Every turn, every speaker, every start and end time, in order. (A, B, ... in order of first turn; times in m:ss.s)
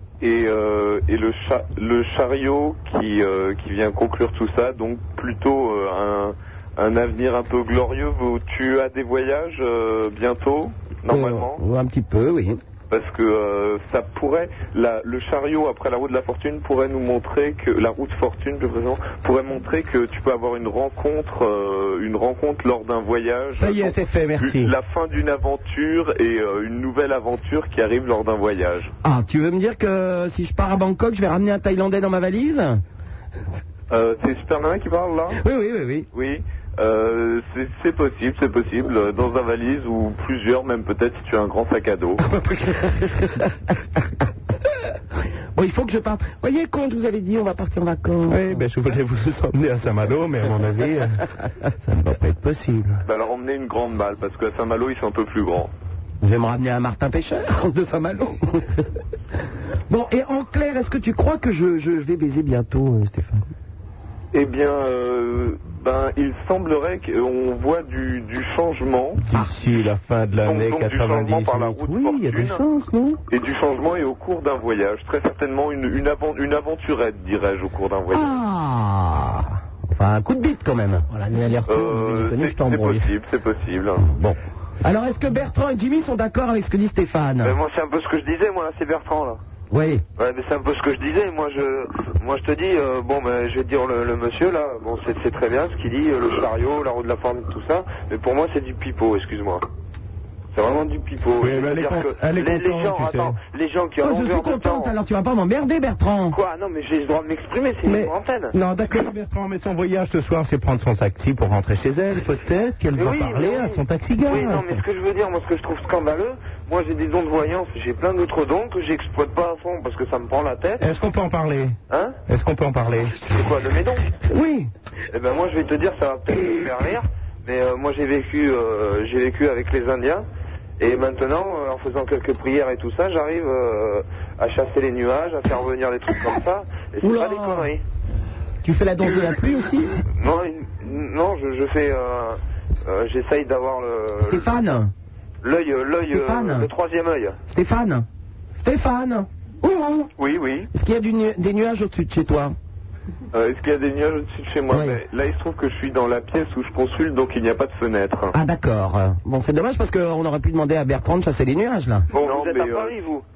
0:00.2-0:11.6 A
0:11.1-0:12.6 B
0:12.9-0:28.9 A
0:23.5-0:24.7 C
0:29.0-0:32.8 B
0:33.9-0:35.4 A
0:35.4-0:36.1 B
0:36.1-0:42.2 A
0:42.3-0:43.2 B
0:45.6-0:48.6 B
0:48.3-0:51.2 C
0:51.8-0:53.0 C
0:53.0-0:55.7 A
0:56.2-0:58.7 B
0:59.9-1:03.4 B
1:04.3-1:09.2 A
1:09.2-1:13.2 C
1:10.4-1:12.6 A
1:13.3-1:18.4 A
1:18.1-1:21.1 B
1:21.1-1:23.1 D
1:21.7-1:24.0 A
1:24.0-1:27.6 B
1:27.4-1:29.4 E
1:29.7-1:30.0 B
1:30.2-1:39.6 E
1:40.5-1:44.9 E
1:41.4-1:43.4 C
1:44.0-1:46.4 B
1:46.3-1:48.6 E
1:47.8-1:54.7 C
1:52.9-2:00.9 E
2:00.8-2:01.8 C
2:01.9-2:02.2 E
2:02.3-2:03.3 C
2:03.3-2:04.0 E
2:04.3-2:04.7 B
2:05.1-2:10.2 E
2:10.8-2:17.8 E
2:17.0-2:17.7 B
2:18.6-2:19.9 B
2:20.2-2:24.5 E
2:24.2-2:24.9 B
2:25.4-2:27.4 E
2:26.1-2:26.7 B
2:27.5-2:30.1 B
2:30.2-2:30.7 E
2:30.7-2:32.6 B
2:33.3-2:38.3 A
2:34.7-2:35.0 B
2:38.3-2:42.1 B
2:42.1-2:43.2 E
2:42.2-2:42.9 A